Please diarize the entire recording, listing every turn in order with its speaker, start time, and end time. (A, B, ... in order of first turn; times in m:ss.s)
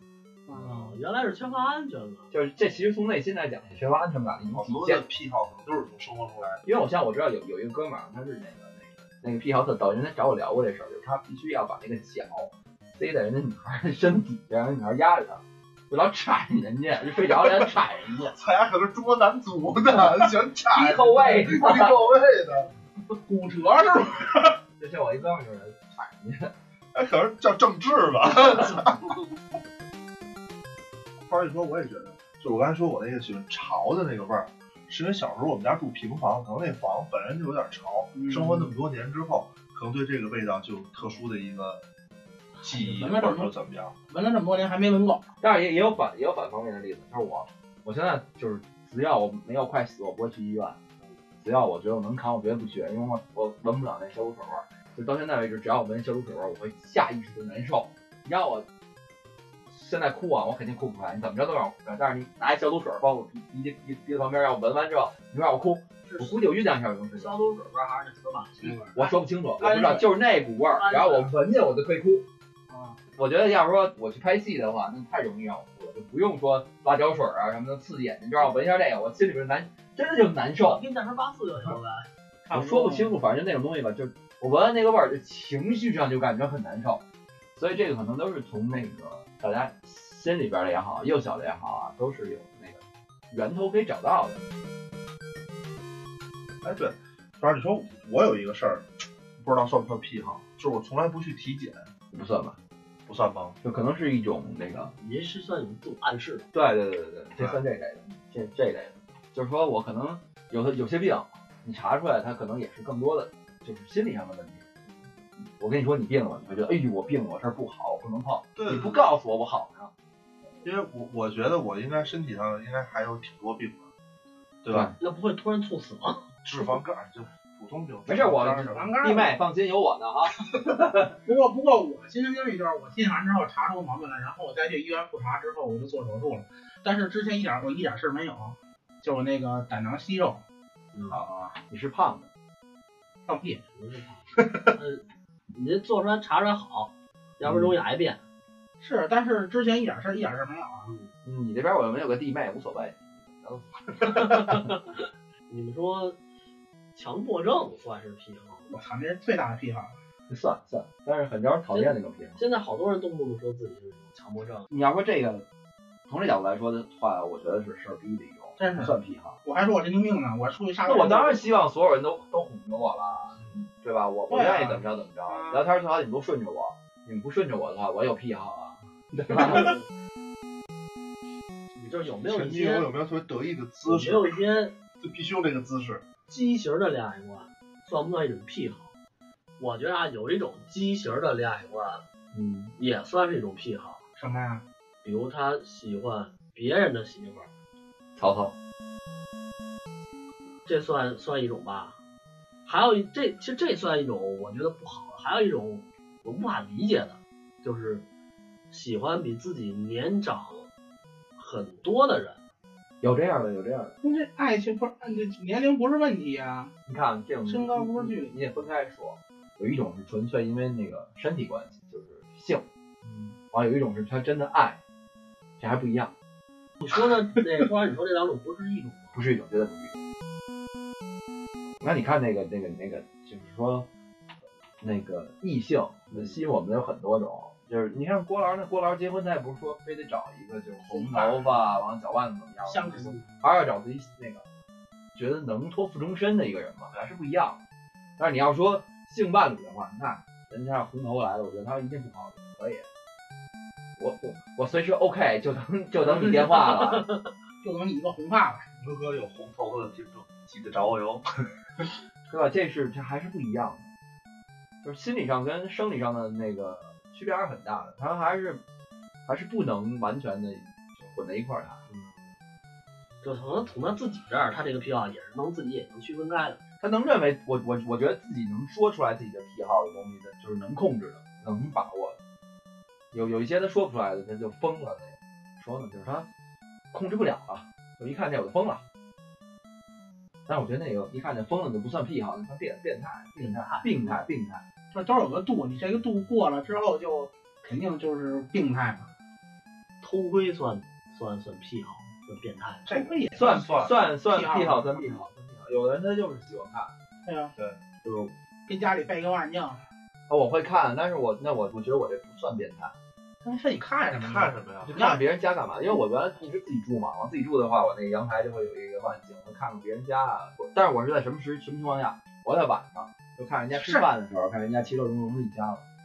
0:00.5-0:00.9 A
0:00.5-0:02.3 B
0:02.3-0:05.0 C
0:04.5-0:06.6 D
0:06.6-0:18.4 C
0:17.2-0:22.7 D
0:20.7-0:22.0 C
0:23.2-0:24.6 A
0:24.8-0:26.5 C
0:26.9-0:29.2 D
0:31.3-0:41.8 D
0:38.1-0:38.7 A
0:42.6-0:43.9 D
0:42.6-0:43.5 A
0:44.1-0:45.2 A
0:45.4-0:50.8 C
0:51.4-0:58.6 C
0:59.7-1:07.4 C
1:06.0-1:06.4 B
1:07.1-1:08.9 B
1:08.6-1:09.0 A
1:08.9-1:12.2 C
1:09.6-1:10.0 A
1:10.7-1:11.3 B
1:12.7-1:13.0 A
1:13.2-1:20.8 C
1:20.6-1:22.1 B
1:22.5-1:23.1 A
1:22.5-1:27.0 C
1:27.5-1:32.8 C
1:33.3-1:34.4 C
1:36.6-1:41.9 D
1:42.1-1:42.6 C
1:43.0-1:43.6 D
1:43.6-1:44.9 C
1:45.0-1:46.5 B
1:46.5-1:54.7 C
1:47.4-1:47.6 D
1:55.4-1:59.9 C
1:58.6-1:59.1 D
2:00.6-2:03.9 D
2:04.6-2:04.9 D
2:04.7-2:04.9 C
2:05.0-2:06.2 B
2:06.4-2:09.0 D
2:08.0-2:11.2 C
2:08.7-2:09.3 A
2:11.2-2:20.4 A
2:20.9-2:21.2 B
2:21.1-2:21.5 D
2:21.7-2:22.3 C
2:23.3-2:23.6 A
2:23.7-2:28.2 B
2:24.3-2:24.7 D
2:27.4-2:27.7 C
2:28.8-2:30.9 A
2:30.8-2:31.1 B
2:31.2-2:34.6 C
2:34.0-2:36.2 B
2:36.9-2:38.7 B
2:38.7-2:39.9 A
2:40.3-2:42.4 C
2:41.7-2:44.7 B
2:44.7-2:45.4 C
2:46.1-2:49.4 C
2:48.6-2:51.4 A
2:50.8-2:59.8 C
2:54.3-2:55.7 A
2:59.4-2:59.8 B
3:01.7-3:02.9 B
3:02.2-3:04.4 D
3:03.8-3:04.7 B
3:05.0-3:06.0 D
3:06.3-3:08.9 B
3:09.6-3:12.0 B
3:12.3-3:12.8 C
3:12.8-3:14.0 B
3:14.2-3:14.6 A
3:15.0-3:17.5 B
3:18.2-3:18.5 C
3:20.6-3:22.0 B
3:22.6-3:28.0 B
3:28.7-3:30.7 B
3:31.4-3:32.4 B
3:33.0-3:34.0 C
3:34.0-3:36.7 A
3:36.8-3:44.8 C
3:37.5-3:38.3 A
3:45.6-3:46.1 C
3:46.8-3:49.2 B
3:49.1-3:49.9 C
3:51.8-3:53.9 C
3:54.8-4:04.4 C
4:00.9-4:01.7 A
4:02.6-4:03.2 A
4:05.1-4:07.6 C
4:08.2-4:12.8 C
4:14.0-4:17.0 C
4:16.0-4:17.3 B
4:17.6-4:18.7 A
4:18.8-4:21.2 D
4:22.3-4:23.9 C
4:24.8-4:28.6 C
4:29.2-4:31.8 C
4:31.9-4:32.3 B
4:33.2-4:36.6 B
4:36.8-4:42.2 C
4:43.1-4:46.3 C
4:46.9-4:48.8 C
4:50.5-4:54.6 C
4:53.4-4:54.2 B
4:54.9-4:59.1 A
5:00.0-5:02.8 B
5:02.8-5:03.9 D
5:02.9-5:05.2 A
5:03.3-5:06.9 C
5:07.2-5:07.5 A
5:08.0-5:08.3 C
5:08.7-5:09.8 A
5:10.3-5:12.9 C
5:13.4-5:15.2 A
5:14.1-5:15.0 D
5:14.8-5:25.8 C
5:23.7-5:24.1 A